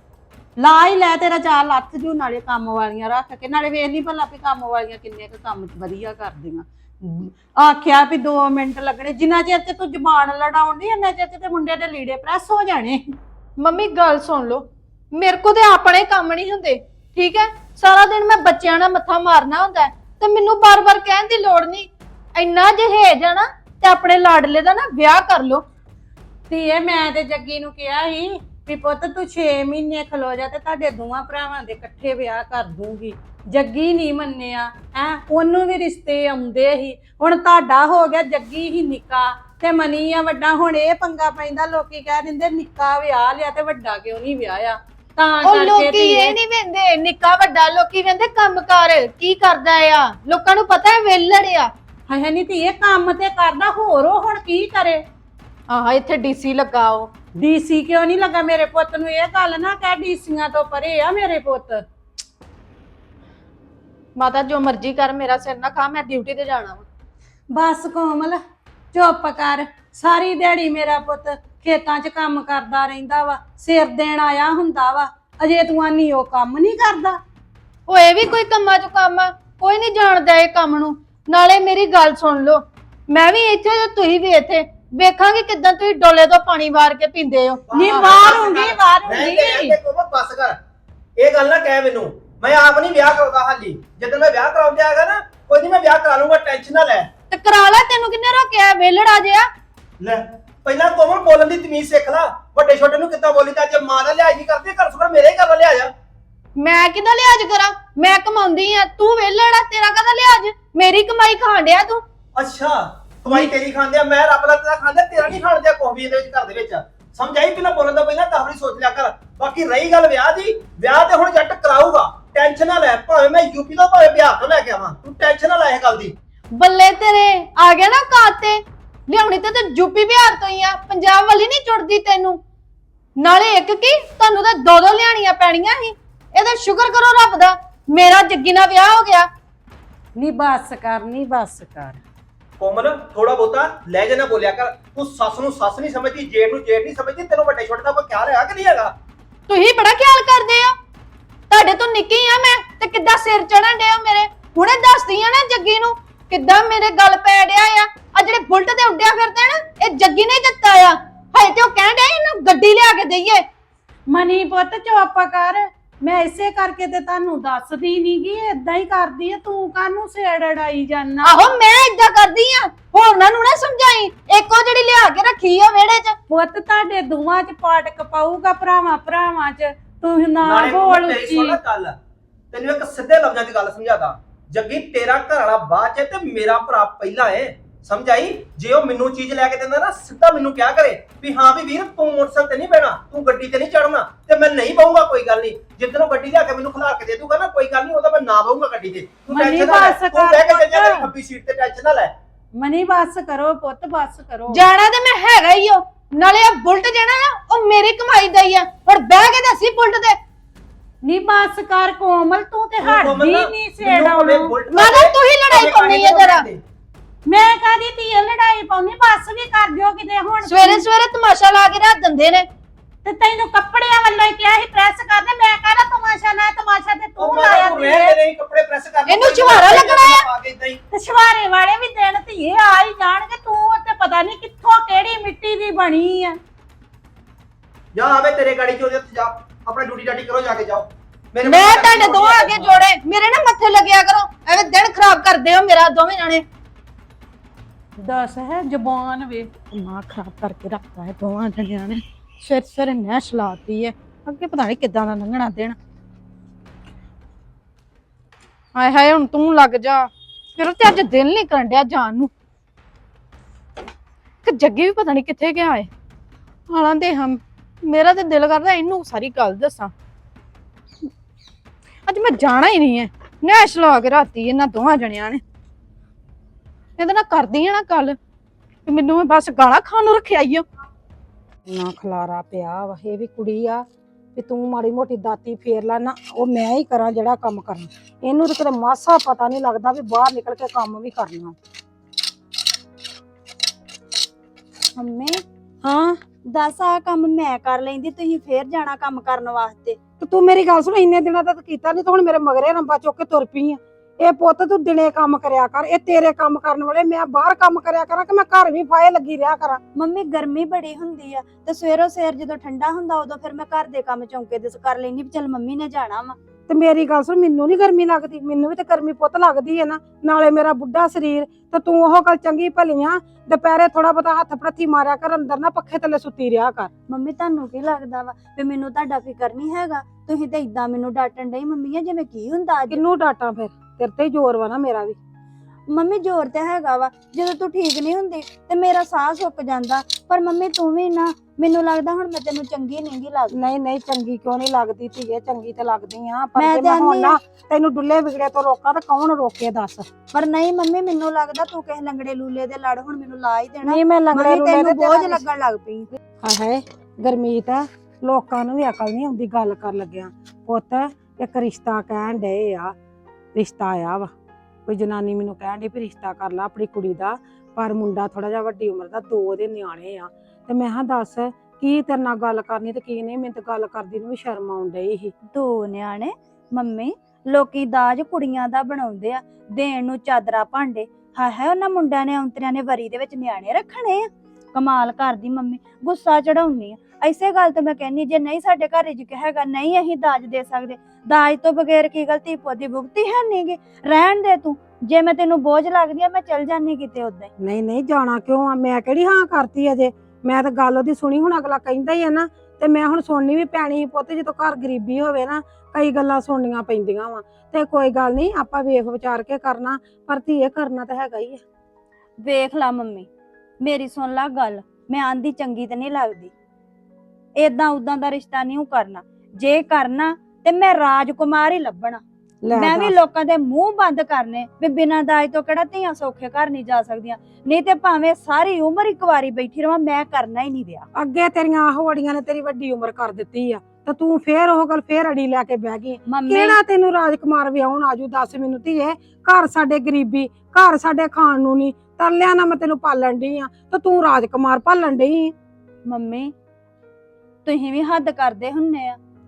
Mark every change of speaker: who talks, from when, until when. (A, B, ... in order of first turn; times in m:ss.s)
0:00.6-0:13.0 A
0:13.6-0:25.6 B
0:26.5-0:46.4 A
0:45.4-0:51.7 B
0:52.1-0:55.0 A
0:55.7-0:57.1 B
0:57.4-1:01.8 A
1:04.2-1:06.9 B
1:07.5-1:08.4 A
1:08.9-1:17.2 A
1:17.9-1:28.5 B
1:27.7-1:30.6 C
1:27.8-1:29.8 A
1:31.2-1:37.1 C
1:37.3-1:39.5 B
1:40.0-1:45.9 C
1:46.6-1:52.0 B
1:52.4-2:06.2 C
2:06.6-2:12.4 B
2:13.2-2:19.3 B
2:20.2-2:22.0 A
2:22.6-2:28.9 C
2:29.5-2:30.8 B
2:31.5-2:43.4 B
2:44.1-2:51.5 A
2:51.2-2:56.2 B
2:56.3-3:01.6 A
3:00.4-3:02.0 C
3:02.5-3:22.1 C
3:19.3-3:21.1 A
3:22.6-3:24.6 A
3:24.5-3:30.2 B
3:31.0-3:34.5 A
3:32.8-3:36.6 C
3:34.7-3:36.4 B
3:37.3-3:40.8 A
3:40.5-3:42.5 B
3:43.0-3:48.2 A
3:47.2-3:50.8 C
3:49.1-3:50.2 B
3:50.9-3:56.4 A
3:57.9-4:02.8 C
4:01.4-4:06.4 B
4:08.0-4:09.5 A
4:09.7-4:15.8 B
4:18.8-4:22.3 B
4:24.4-4:25.9 B
4:26.7-4:29.9 B
4:32.1-4:35.4 B
4:37.0-4:38.2 B
4:38.9-4:40.6 B
4:41.7-4:43.8 D
4:44.4-4:51.6 D
4:55.0-4:55.4 E
4:55.8-4:56.2 D
4:56.5-5:00.0 E
5:00.2-5:09.8 D
5:10.0-5:16.4 E
5:16.7-5:26.9 D
5:27.1-5:33.0 E
5:32.9-5:35.2 D
5:35.9-5:43.6 E
5:43.5-5:50.1 D
5:46.6-5:47.4 E
5:50.3-5:56.1 E
5:53.9-5:55.4 D
5:56.4-6:02.9 D
6:03.6-6:04.3 D
6:04.9-6:15.3 D
6:15.5-6:37.5 E
6:37.6-6:51.6 D
6:52.4-6:53.3 E
6:53.8-6:56.5 E
6:57.6-7:02.2 E
7:02.6-7:03.2 D
7:02.7-7:11.1 E
7:11.2-7:25.5 D
7:16.3-7:16.8 E
7:26.1-7:26.5 E
7:27.6-7:29.2 E